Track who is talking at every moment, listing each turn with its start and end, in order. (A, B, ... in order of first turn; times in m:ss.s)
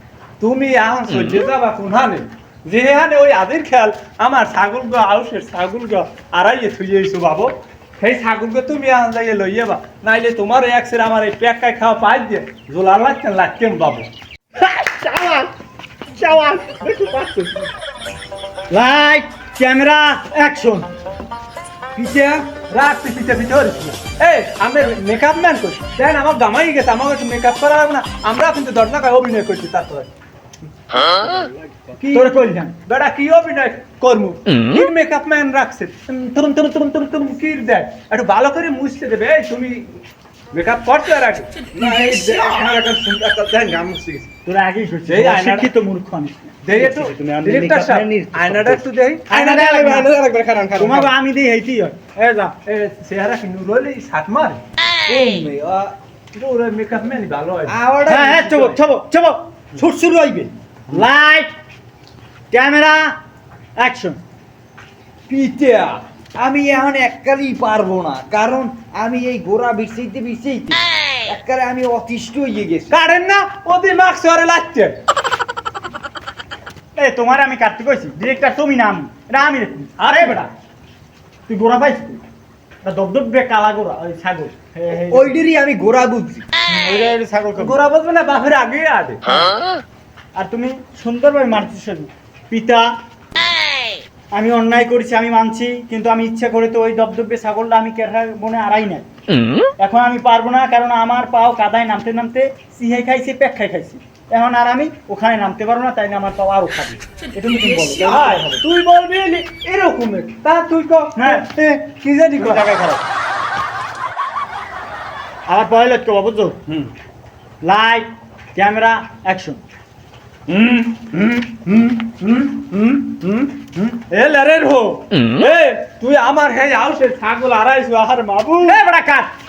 0:00.4-0:14.1 A
0:14.6-0:15.5 B
0:16.1-0:17.7 B
0:18.7-0:20.8 B
0:22.0-0:22.5 C
0:22.6-0:30.1 A
0:31.9-0:44.3 A
0:32.1-0:32.7 B
0:44.4-0:46.6 B
0:45.1-0:45.7 A
0:46.6-0:51.1 A
0:48.0-0:48.7 C
0:49.3-0:50.1 B
0:50.8-0:52.5 B
0:52.6-0:54.6 A
0:55.1-0:55.9 C
0:56.3-0:57.8 A
0:57.7-0:58.7 C
0:58.0-1:01.5 B
1:02.5-1:03.1 B
1:03.8-1:04.2 B
1:05.3-1:12.8 C
1:12.9-1:15.0 A
1:17.0-1:20.4 B
1:20.0-1:20.5 A
1:21.5-1:22.2 B
1:22.8-1:25.4 B
1:25.3-1:26.4 C
1:26.7-1:27.8 B
1:27.6-1:29.5 A
1:30.3-1:32.9 B
1:34.3-1:39.0 B
1:39.8-1:48.6 B
1:48.0-1:52.7 A
1:51.1-1:51.5 B
1:52.4-1:53.0 B
1:55.5-1:56.6 B
1:57.6-1:59.6 B
2:00.5-2:08.8 A
2:08.6-2:09.3 B